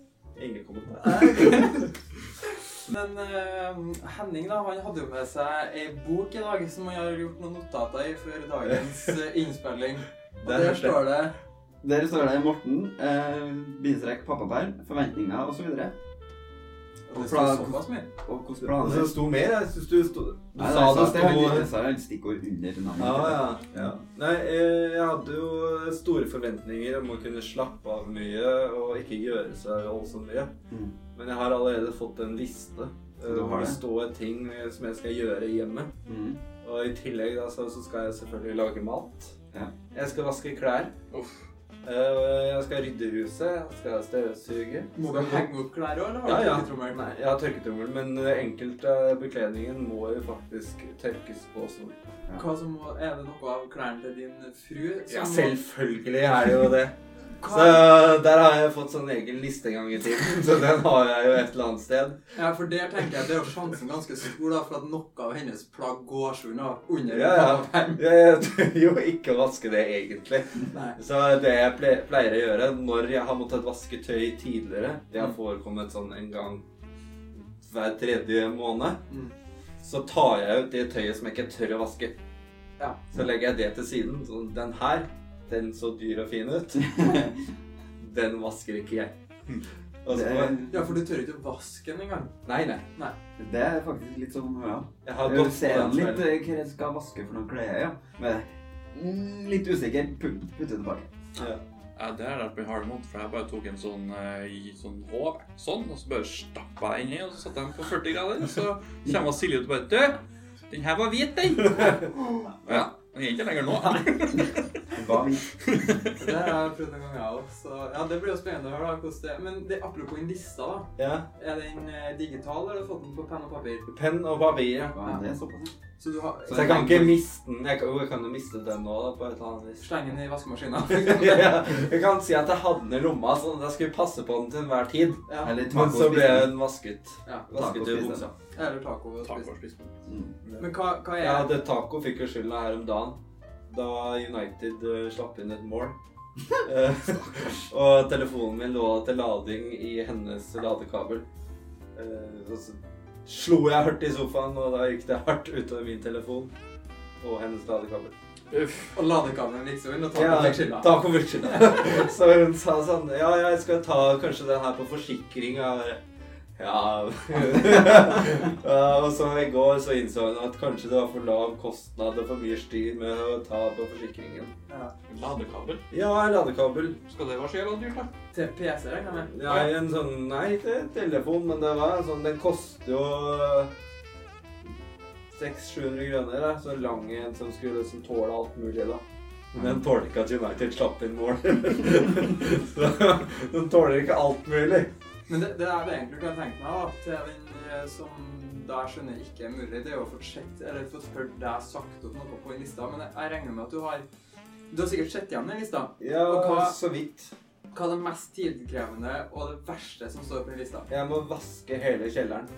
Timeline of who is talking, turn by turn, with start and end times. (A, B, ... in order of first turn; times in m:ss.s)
0:00.4-0:01.8 A
0:01.0-0:01.9 B
0:02.8-0:11.4 B
0:10.4-0:11.1 A
0:11.8-0:15.9 C
0:17.1-0:18.1 B
0:17.2-0:19.1 C
0:18.6-0:21.7 A
0:20.6-0:23.9 C
0:23.0-0:30.5 A
0:30.7-0:31.0 C
0:31.1-0:35.9 A
0:33.2-0:33.8 C
0:36.1-0:36.4 C
0:36.6-0:39.4 A
0:39.9-0:40.9 A
0:41.1-0:41.4 D
0:41.8-0:45.5 A
0:45.0-0:47.0 B
0:46.2-0:52.0 A
0:52.4-0:55.6 B
0:55.1-1:02.2 A
0:57.4-0:57.9 B
1:02.4-1:08.0 B
1:07.1-1:16.6 A
1:10.7-1:11.0 B
1:17.3-1:19.0 A
1:19.8-1:22.2 A
1:23.1-1:27.3 A
1:28.0-1:29.2 A
1:30.0-1:30.6 A
1:30.1-1:30.9 C
1:30.7-1:32.3 B
1:32.4-1:32.8 A
1:33.4-1:41.1 C
1:35.0-1:36.3 A
1:41.4-1:41.6 A
1:42.0-1:52.1 D
1:52.6-1:54.7 D
1:54.9-1:55.4 C
1:55.6-1:56.1 D
1:56.2-2:03.9 B
2:01.0-2:01.3 A
2:03.9-2:05.0 A
2:04.9-2:05.7 C
2:06.0-2:07.1 B
2:06.5-2:07.2 C
2:06.5-2:09.9 A
2:09.8-2:11.6 B
2:10.9-2:18.3 A
2:15.3-2:15.6 B
2:15.4-2:16.6 C
2:17.5-2:18.3 C
2:18.5-2:19.5 B
2:19.2-2:19.9 D
2:20.1-2:20.3 C
2:20.6-2:21.5 B
2:21.2-2:23.2 A
2:23.7-2:26.0 A
2:26.6-2:31.2 A
2:32.0-2:36.5 A
2:37.2-2:38.1 A
2:38.5-2:38.9 D
2:38.9-2:41.8 B
2:40.1-2:46.0 A
2:46.6-2:54.5 A
2:55.1-2:55.8 D
2:55.9-2:57.0 A
2:57.1-2:58.1 D
2:58.3-2:59.7 B
2:59.3-3:03.7 A
3:05.3-3:09.0 A
3:09.5-3:14.9 A
3:15.3-3:24.1 B
3:24.7-3:26.8 B
3:26.0-3:27.3 A
3:27.7-3:30.9 B
3:30.9-3:32.5 A